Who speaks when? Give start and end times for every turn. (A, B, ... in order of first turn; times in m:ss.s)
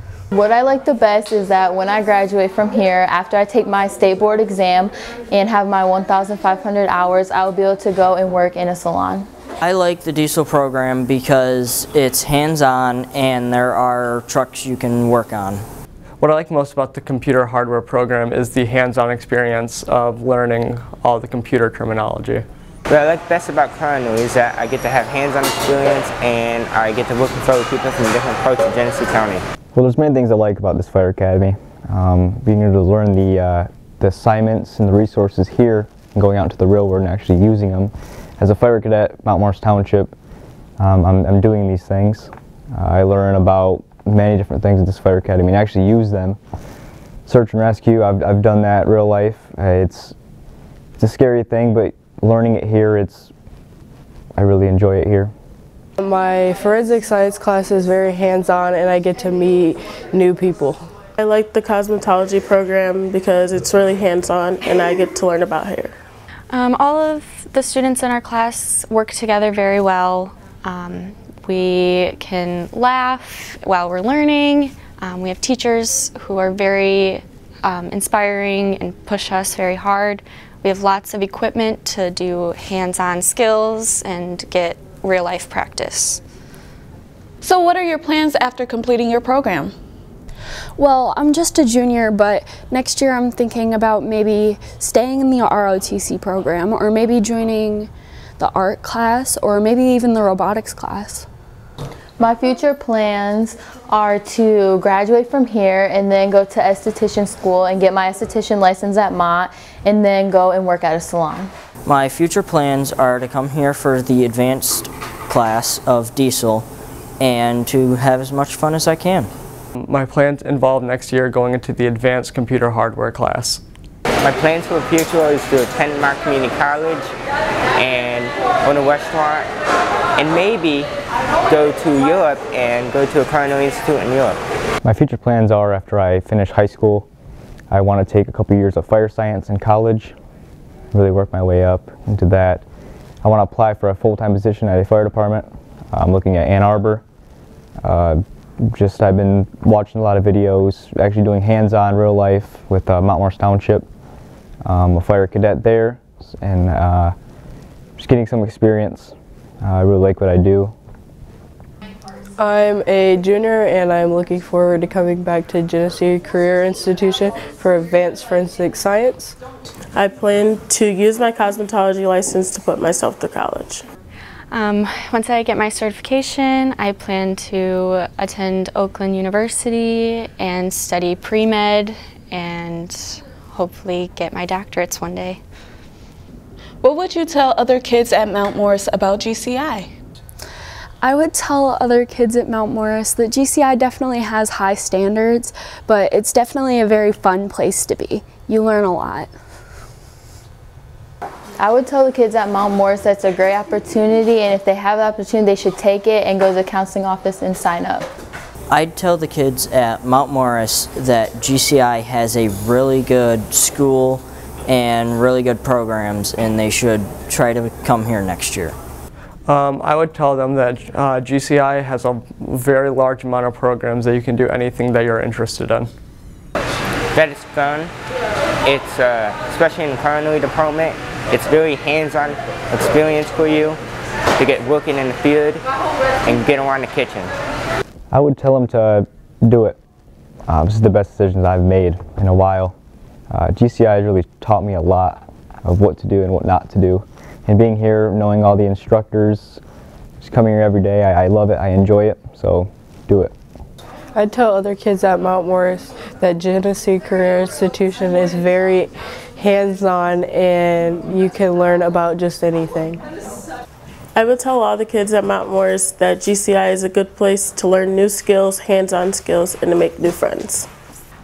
0:00.3-0:09.3 A
0:09.6-0:15.6 B
0:16.2-0:22.4 C
0:22.9-0:29.4 D
0:29.8-0:40.1 E
0:40.8-0:46.4 E
0:47.3-0:50.2 E
0:51.0-0:53.3 E
0:54.4-0:55.3 E
0:56.0-1:00.8 F
1:01.2-1:06.0 G
1:06.5-1:26.2 H
1:27.4-1:29.8 I
1:30.8-1:41.3 J
1:42.2-1:51.5 A
1:51.8-1:56.7 B
1:57.2-1:59.3 B
1:59.8-2:03.6 C
2:04.2-2:07.1 D
2:07.8-2:09.5 D
2:10.2-2:10.9 D
2:11.5-2:14.4 D
2:14.8-2:17.1 E
2:17.7-2:20.2 E
2:20.9-2:22.6 E
2:23.2-2:27.0 E
2:27.8-2:33.8 E
2:34.6-2:37.2 E
2:38.0-2:40.7 E
2:42.4-2:49.4 F
2:49.9-2:53.8 G
2:54.5-3:05.4 H
3:06.8-3:09.9 I
3:11.0-3:19.3 J
3:21.6-3:28.1 A
3:28.7-3:38.8 B
3:39.5-3:45.9 C
3:47.1-3:47.9 D
3:48.6-3:53.8 D
3:54.4-3:55.6 D
3:56.2-3:57.3 D
3:58.1-3:59.8 E
4:00.5-4:02.8 E
4:03.3-4:09.6 E
4:10.2-4:13.3 E
4:14.2-4:23.0 F
4:24.2-4:30.7 G